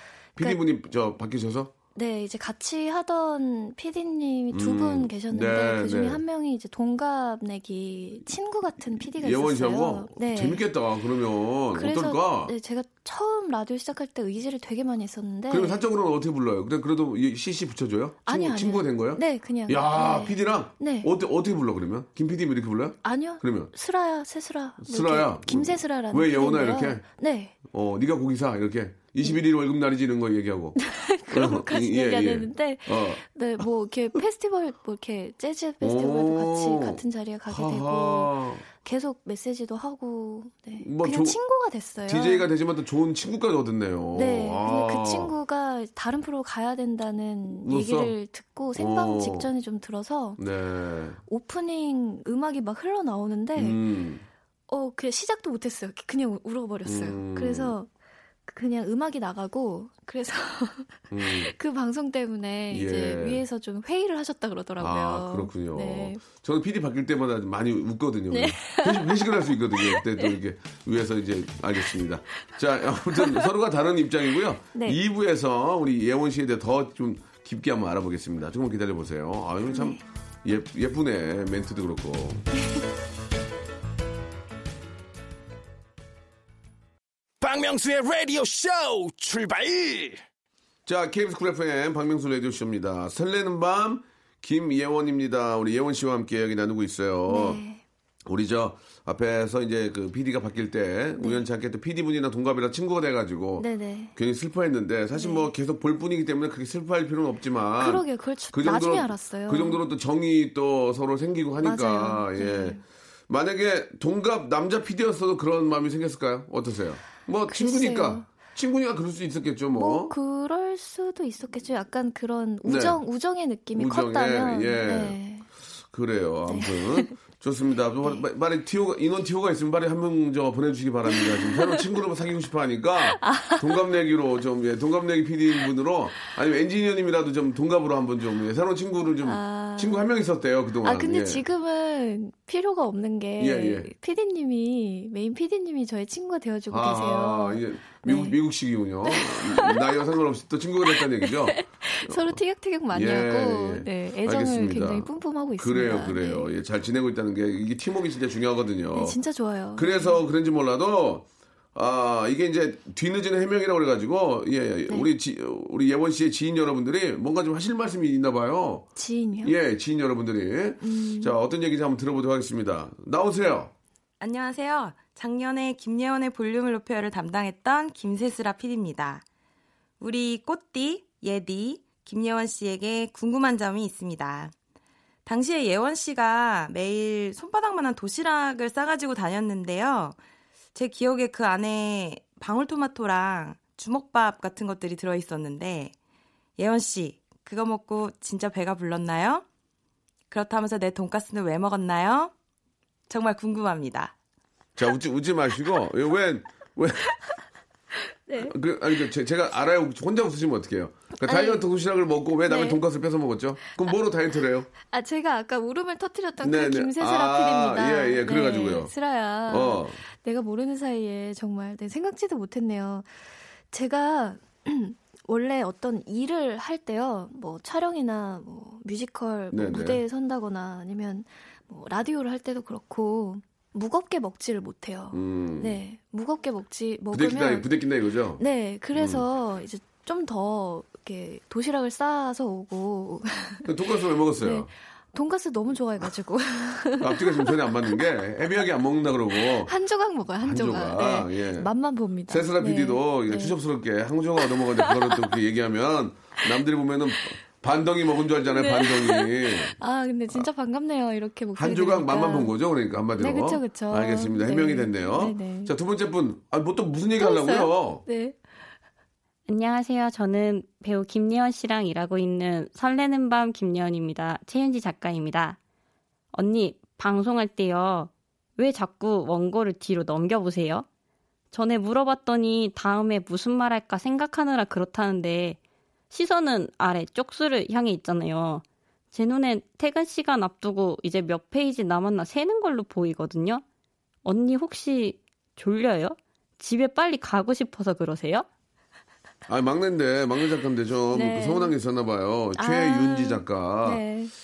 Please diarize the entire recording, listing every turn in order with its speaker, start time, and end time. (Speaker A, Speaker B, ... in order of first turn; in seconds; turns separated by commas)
Speaker A: 0.4-1.7, Speaker B: 1.9-10.7, Speaker A: 4.5-6.2, Speaker A: 9.1-12.5, Speaker B: 11.7-15.8, Speaker A: 15.5-23.7, Speaker B: 18.2-21.1, Speaker B: 23.0-27.5, Speaker A: 24.8-27.0, Speaker A: 27.6-30.8, Speaker B: 30.8-42.5, Speaker A: 31.3-33.2, Speaker A: 35.8-38.6, Speaker A: 40.8-41.4, Speaker A: 42.1-45.3, Speaker B: 44.1-50.4, Speaker A: 47.6-48.1, Speaker A: 48.8-49.5, Speaker A: 50.4-51.2, Speaker B: 51.3-53.8, Speaker A: 53.5-54.2, Speaker B: 54.7-57.9, Speaker A: 56.8-57.7, Speaker B: 58.5-66.2, Speaker A: 61.1-61.5, Speaker A: 62.7-63.4, Speaker A: 64.8-82.5, Speaker B: 68.3-70.4, Speaker B: 73.1-73.5, Speaker B: 74.7-75.0, Speaker B: 79.7-80.0, Speaker C: 87.4-90.2, Speaker A: 90.8-97.6, Speaker B: 97.3-97.8, Speaker A: 98.2-120.1, Speaker B: 101.2-101.4, Speaker B: 103.6-104.1, Speaker B: 105.1-105.5, Speaker B: 107.8-109.8, Speaker B: 111.6-112.8, Speaker B: 117.5-118.2, Speaker B: 119.7-125.5, Speaker A: 122.6-123.0, Speaker A: 123.7-125.2, Speaker A: 125.9-141.4, Speaker B: 126.5-127.1, Speaker B: 131.1-131.8, Speaker B: 133.1-133.8, Speaker B: 139.2-140.1, Speaker B: 140.8-148.4, Speaker A: 143.4-143.9, Speaker A: 146.7-152.4, Speaker B: 149.1-150.0, Speaker B: 150.9-156.5, Speaker A: 152.9-159.2, Speaker B: 158.9-160.2, Speaker A: 159.8-168.8, Speaker B: 168.9-169.5, Speaker A: 169.4-173.7, Speaker B: 170.8-171.3, Speaker D: 174.2-179.2, Speaker D: 180.0-184.5, Speaker D: 185.2-190.2, Speaker D: 190.7-195.9, Speaker D: 196.6-199.4, Speaker D: 200.3-202.3, Speaker D: 203.1-204.1, Speaker A: 204.8-207.2, Speaker B: 208.3-208.5, Speaker A: 208.4-214.7, Speaker B: 211.2-211.7, Speaker B: 212.4-212.8, Speaker B: 214.8-223.1, Speaker A: 216.4-218.9, Speaker A: 219.5-220.0, Speaker B: 223.7-237.7, Speaker A: 229.5-230.0, Speaker A: 235.1-235.8, Speaker A: 237.1-238.4, Speaker B: 238.4-243.7, Speaker A: 238.9-239.2, Speaker A: 243.6-244.7, Speaker B: 244.4-248.0, Speaker A: 247.0-249.7, Speaker B: 249.4-253.6, Speaker A: 250.4-251.7, Speaker A: 252.3-259.8, Speaker B: 254.4-255.4, Speaker B: 258.5-262.5, Speaker A: 261.6-268.0, Speaker B: 263.2-265.7, Speaker B: 267.1-268.4, Speaker E: 269.5-275.6, Speaker E: 276.3-280.9, Speaker E: 281.5-285.6, Speaker E: 286.1-293.6, Speaker E: 294.2-298.4, Speaker A: 299.5-304.0, Speaker B: 301.1-301.7, Speaker B: 302.6-304.3